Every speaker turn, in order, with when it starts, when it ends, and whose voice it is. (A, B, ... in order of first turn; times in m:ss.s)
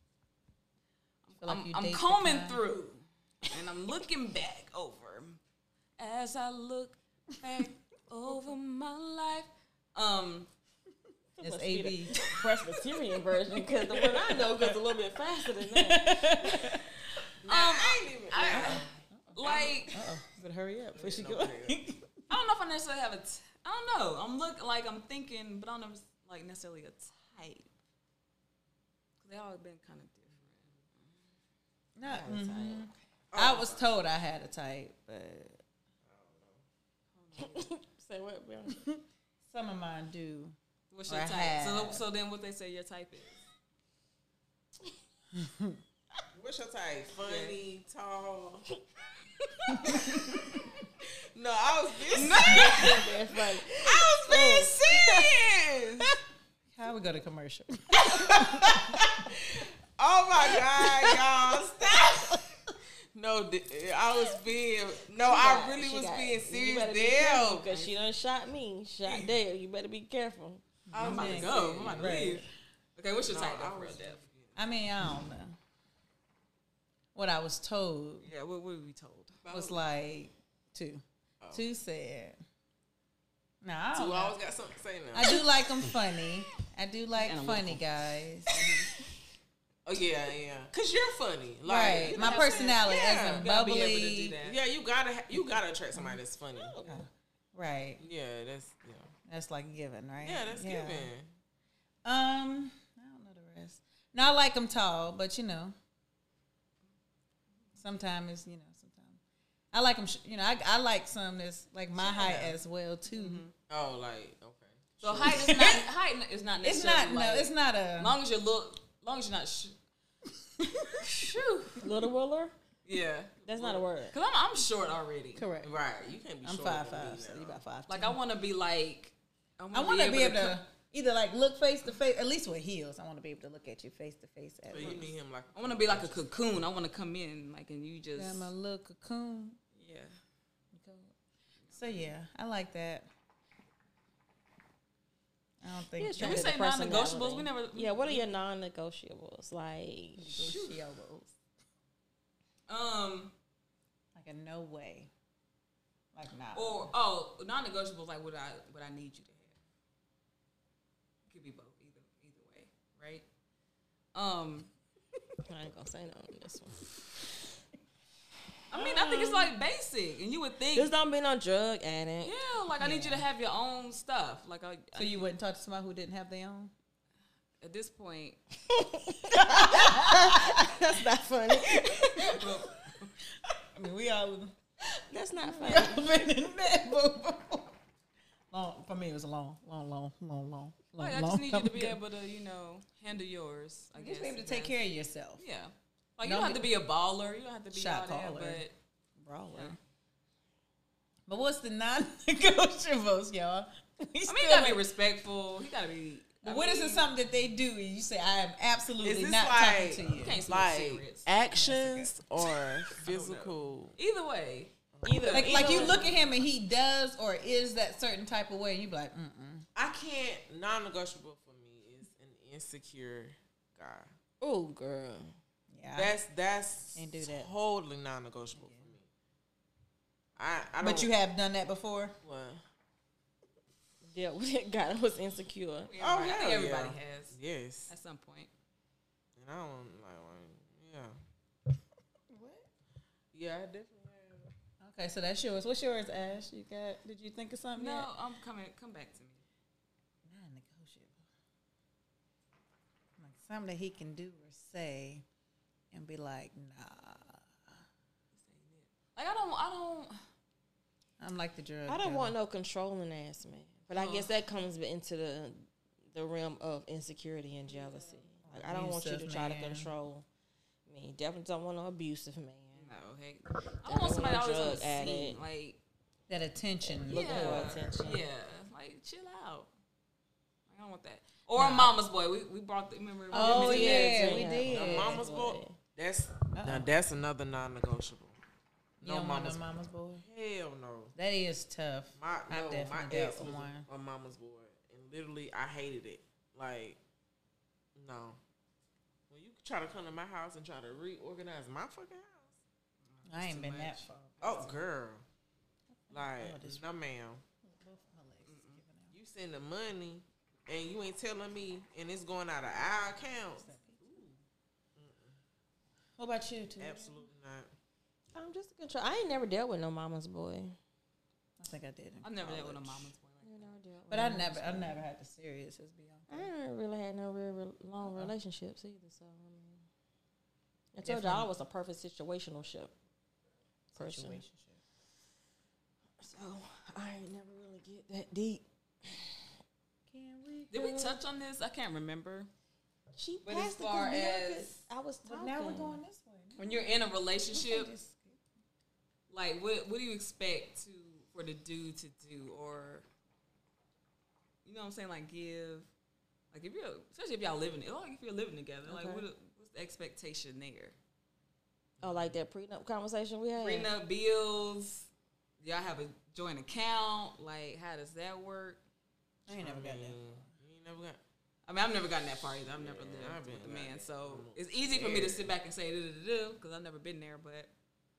0:01.2-0:05.4 A
0:01.4-0:02.6 B
0:06.0-0:10.5 A
0:11.4-0:16.7 C
0:11.4-0:12.2 B
0:13.9-0:14.4 B
0:15.6-0:16.9 B
0:17.4-0:18.9 D
0:17.4-0:20.0 A
0:18.6-0:22.1 B
0:19.4-0:19.8 D
0:20.9-0:21.8 D
0:22.3-0:27.7 A
0:29.2-0:31.0 A
0:32.0-0:35.6 B
0:32.1-0:32.9 C
0:33.3-0:33.9 D
0:36.0-0:36.6 D
0:37.1-0:37.7 A
0:37.4-0:38.8 C
0:38.7-0:40.6 B
0:40.9-0:43.4 A
0:41.1-0:42.0 B
0:45.4-0:45.8 B
0:46.3-0:48.7 D
0:47.2-0:47.6 A
0:49.7-0:50.0 B
0:50.0-0:50.3 D
0:51.0-0:56.2 D
0:52.1-0:53.1 A
0:52.4-0:54.9 C
0:56.7-0:59.2 B
0:58.0-1:02.4 D
1:00.6-1:01.3 B
1:01.8-1:02.7 B
1:03.1-1:07.7 D
1:05.2-1:10.6 C
1:09.0-1:09.3 A
1:10.9-1:12.4 B
1:10.9-1:12.4 D
1:11.0-1:14.2 A
1:13.3-1:14.6 D
1:14.6-1:15.6 B
1:17.1-1:18.3 B
1:18.2-1:19.4 A
1:19.4-1:19.8 D
1:19.5-1:22.4 B
1:23.6-1:24.4 B
1:23.9-1:25.9 D
1:25.1-1:28.7 B
1:27.2-1:27.8 A
1:28.5-1:28.9 A
1:29.9-1:33.5 D
1:31.6-1:34.4 B
1:32.0-1:34.6 A
1:34.4-1:36.8 D
1:35.9-1:36.2 B
1:36.6-1:37.0 C
1:36.8-1:38.0 B
1:38.0-1:39.1 D
1:39.3-1:41.1 B
1:40.2-1:41.3 D
1:42.0-1:45.8 B
1:47.8-1:49.2 B
1:49.7-1:53.4 B
1:52.0-1:52.3 A
1:52.2-1:52.6 D
1:53.1-1:53.5 A
1:53.7-1:55.5 D
1:55.0-1:59.8 A
1:55.2-1:55.9 B
1:56.6-1:58.2 B
2:00.6-2:01.1 B
2:01.0-2:01.9 A
2:01.8-2:02.5 C
2:02.9-2:05.4 A
2:03.4-2:04.1 C
2:05.4-2:05.8 B
2:05.6-2:07.6 D
2:06.4-2:08.2 B
2:07.9-2:10.6 A
2:09.7-2:15.1 B
2:14.7-2:16.6 D
2:15.6-2:18.5 A
2:18.2-2:19.6 B
2:19.8-2:20.1 A
2:20.7-2:21.1 B
2:21.6-2:22.0 A
2:21.7-2:23.1 B
2:25.6-2:26.5 B
2:26.0-2:30.3 C
2:26.2-2:28.3 A
2:30.2-2:31.4 B
2:30.4-2:30.8 A
2:32.7-2:33.3 A
2:34.1-2:35.1 B
2:36.1-2:36.9 B
2:36.5-2:39.6 A
2:41.3-2:43.2 A
2:44.1-2:44.7 A
2:45.5-2:46.9 C
2:48.7-2:50.9 A
2:48.7-2:49.5 C
2:50.8-2:52.3 C
2:52.2-2:55.3 A
2:52.8-2:53.2 B
2:54.9-2:56.7 B
2:57.6-2:58.4 A
2:58.7-3:02.4 C
2:59.3-3:00.8 B
3:01.7-3:02.4 B
3:02.2-3:03.1 A
3:03.6-3:04.5 B
3:04.9-3:06.1 C
3:05.5-3:07.7 B
3:08.5-3:12.0 B
3:11.0-3:14.8 A
3:13.9-3:15.4 B
3:15.4-3:18.8 A
3:16.2-3:16.7 B
3:17.7-3:18.6 B
3:19.2-3:19.8 B
3:21.3-3:24.8 B
3:24.3-3:27.1 A
3:26.4-3:30.4 B
3:29.0-3:34.0 D
3:30.1-3:31.3 A
3:31.5-3:32.1 B
3:33.0-3:36.0 A
3:34.9-3:35.9 D
3:35.0-3:36.1 C
3:35.3-3:39.6 B
3:39.8-3:44.1 D
3:44.4-3:45.4 C
3:45.7-3:46.1 B
3:46.0-3:49.1 D
3:46.9-3:47.5 B
3:48.6-3:48.9 B
3:50.4-3:51.1 D
3:50.8-3:52.2 B
3:52.2-3:52.6 D
3:54.1-3:55.9 C
3:55.9-3:57.4 A
3:56.0-3:57.9 D
3:57.9-3:58.5 A
3:59.4-4:01.2 D
4:02.3-4:02.6 B
4:03.3-4:04.5 D
4:04.8-4:08.1 B
4:07.8-4:09.4 A
4:10.3-4:11.2 B
4:13.2-4:15.2 B
4:15.9-4:17.5 B
4:18.4-4:20.2 A
4:21.2-4:22.3 B
4:21.9-4:30.3 C
4:23.9-4:24.3 A
4:27.7-4:28.3 A
4:28.4-4:29.9 B
4:30.9-4:32.9 C
4:32.8-4:35.8 A
4:33.8-4:35.4 C
4:36.3-4:37.8 B
4:36.8-4:38.3 C
4:37.1-4:39.7 A
4:40.7-4:44.5 A
4:41.6-4:41.9 B
4:43.3-4:45.2 B
4:43.3-4:45.8 C
4:44.6-4:48.4 D
4:46.5-4:46.9 B
4:49.0-4:50.2 B
4:49.0-4:49.6 D
4:50.2-4:51.1 D
4:51.2-4:53.9 B
4:52.1-4:57.0 D
4:58.0-4:58.4 D
4:59.3-5:02.6 D
5:03.1-5:04.1 A
5:03.3-5:04.8 B
5:04.4-5:05.2 D
5:06.1-5:06.9 B
5:06.1-5:07.4 D
5:07.6-5:09.1 B
5:08.4-5:08.8 A
5:09.1-5:14.3 D
5:13.6-5:14.3 B
5:14.9-5:15.4 D
5:16.2-5:17.2 B
5:16.8-5:17.7 D
5:18.3-5:20.8 C
5:21.6-5:23.1 B
5:22.2-5:23.8 A
5:23.4-5:25.0 C
5:24.1-5:26.5 B
5:26.3-5:29.8 C
5:28.0-5:28.3 B
5:30.9-5:32.9 C
5:31.0-5:31.5 B
5:33.9-5:34.8 B
5:34.0-5:34.4 C
5:36.2-5:39.4 C
5:40.1-5:41.1 B
5:40.7-5:42.5 A
5:43.1-5:46.0 C
5:43.4-5:44.8 A
5:45.2-5:46.9 B
5:46.6-5:47.9 A
5:47.5-5:48.4 B
5:49.3-5:53.1 A
5:54.6-5:55.9 A
5:56.5-6:00.9 A
5:58.9-5:59.3 C
6:02.0-6:02.4 D
6:02.0-6:03.9 C
6:03.6-6:05.1 A
6:05.6-6:08.8 A
6:09.5-6:10.5 B
6:09.6-6:11.2 D
6:11.6-6:17.7 A
6:12.8-6:15.5 D